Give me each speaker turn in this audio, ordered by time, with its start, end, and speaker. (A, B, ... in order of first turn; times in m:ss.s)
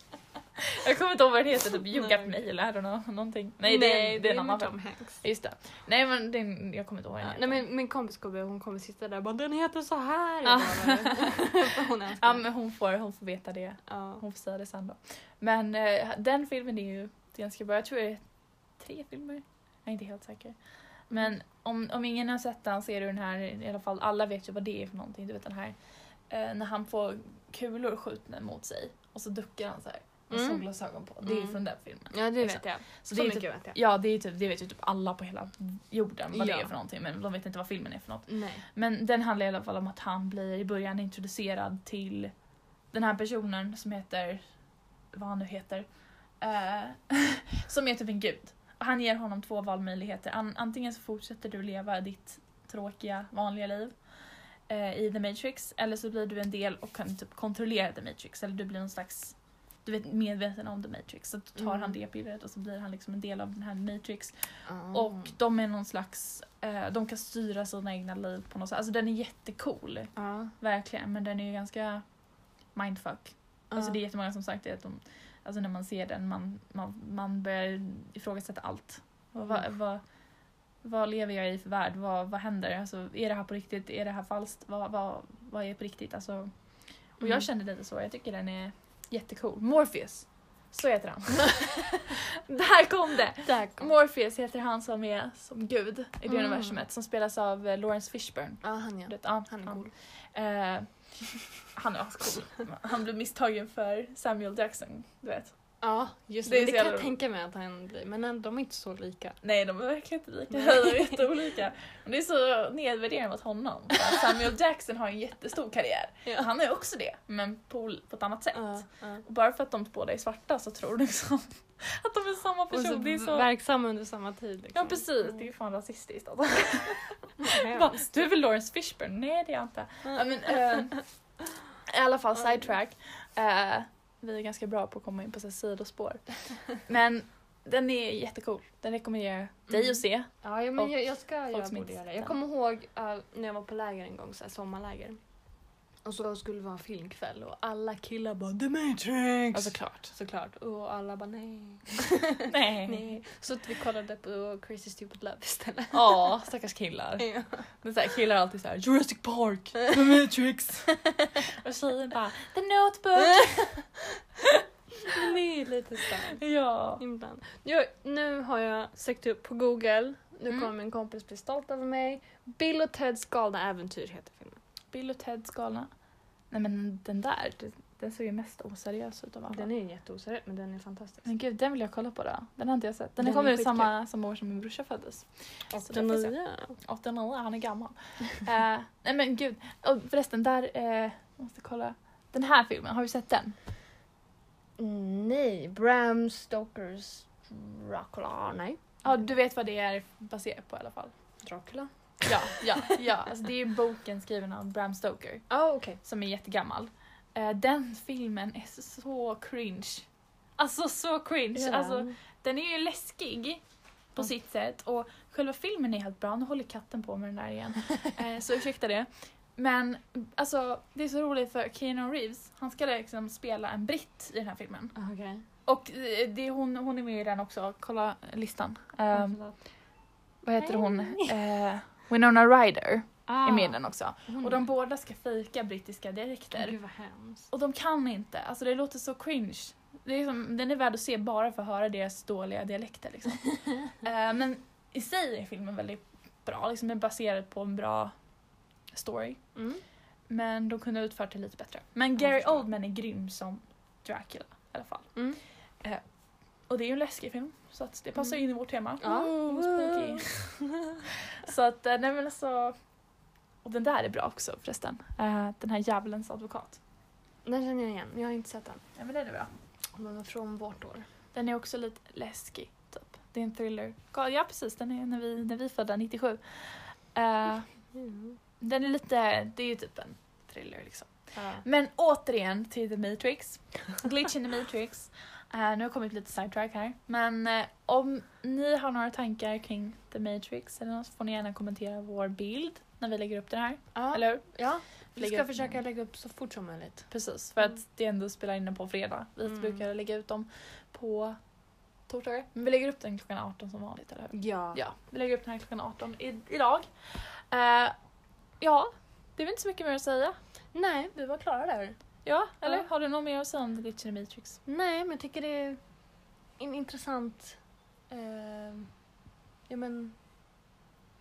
0:00.6-0:07.6 A
0:02.0-0:02.3 B
0:03.6-0:05.2 B
0:07.2-0:12.4 B
0:10.4-0:11.6 A
0:12.2-0:18.2 A
0:13.9-0:14.2 B
0:18.8-0:20.6 A
0:21.1-0:25.8 A
0:26.3-0:42.3 A
0:30.3-0:30.6 B
0:31.2-0:31.6 B
0:32.1-0:33.8 B
0:36.3-0:36.7 B
0:38.3-0:38.6 B
0:42.9-0:44.4 A
0:45.1-0:45.9 A
0:46.4-0:54.0 A
0:54.7-1:12.0 A
1:01.6-1:01.9 B
1:04.7-1:05.3 B
1:10.2-1:10.5 B
1:12.8-1:20.0 A
1:13.7-1:14.0 B
1:20.8-1:26.5 A
1:27.2-1:27.5 B
1:27.2-1:45.6 A
1:33.5-1:33.9 B
1:36.3-1:36.8 B
1:38.6-1:39.9 B
1:45.8-1:49.4 B
1:46.4-1:47.1 A
1:49.4-2:03.5 A
1:50.5-1:51.1 B
1:56.2-1:56.5 B
1:58.5-1:59.2 B
2:02.7-2:05.1 B
2:04.7-2:11.0 A
2:07.4-2:08.0 B
2:11.8-2:20.9 A
2:19.7-2:25.2 B
2:21.5-2:22.4 A
2:26.0-2:36.3 B
2:29.5-2:30.1 A
2:32.5-2:33.2 A
2:35.9-2:43.9 A
2:37.2-2:37.7 B
2:45.0-2:46.4 B
2:46.3-2:47.0 A
2:47.0-2:54.6 B
2:54.9-2:55.9 A
2:56.5-2:59.7 A
2:59.5-3:01.2 B
3:01.2-3:13.6 A
3:03.2-3:03.9 B
3:05.7-3:06.8 B
3:14.8-3:19.0 B
3:19.0-3:21.1 A
3:21.4-3:22.8 B
3:22.2-3:25.5 A
3:25.5-3:26.0 B
3:26.0-3:33.6 A
3:31.6-3:32.2 B
3:34.2-3:45.0 A
3:45.0-3:45.4 B
3:45.6-3:49.4 A
3:49.1-3:49.6 B
3:50.4-3:56.8 A
3:50.6-3:51.3 B
3:53.3-3:54.6 B
3:56.5-3:57.5 B
3:57.5-4:08.1 A
4:08.9-4:09.4 A
4:09.6-4:09.8 B
4:10.3-4:15.2 A
4:12.2-4:12.6 B
4:16.7-4:20.6 A
4:19.0-4:20.9 B
4:21.3-4:22.8 A
4:23.6-4:26.8 A
4:27.4-4:28.8 B
4:29.0-4:29.5 A
4:30.0-4:31.1 B
4:31.3-4:37.7 A
4:38.0-4:38.4 B
4:38.6-4:54.5 A
4:41.3-4:41.6 B
4:54.0-4:57.1 B
4:55.2-4:55.8 A
4:57.1-5:01.4 A
5:02.1-5:08.0 A
5:04.3-5:04.8 B
5:08.6-5:10.4 A
5:10.7-5:12.0 B
5:12.2-5:14.6 A
5:14.7-5:15.8 B
5:16.6-5:17.6 B
5:18.1-5:18.9 B
5:19.7-5:20.2 B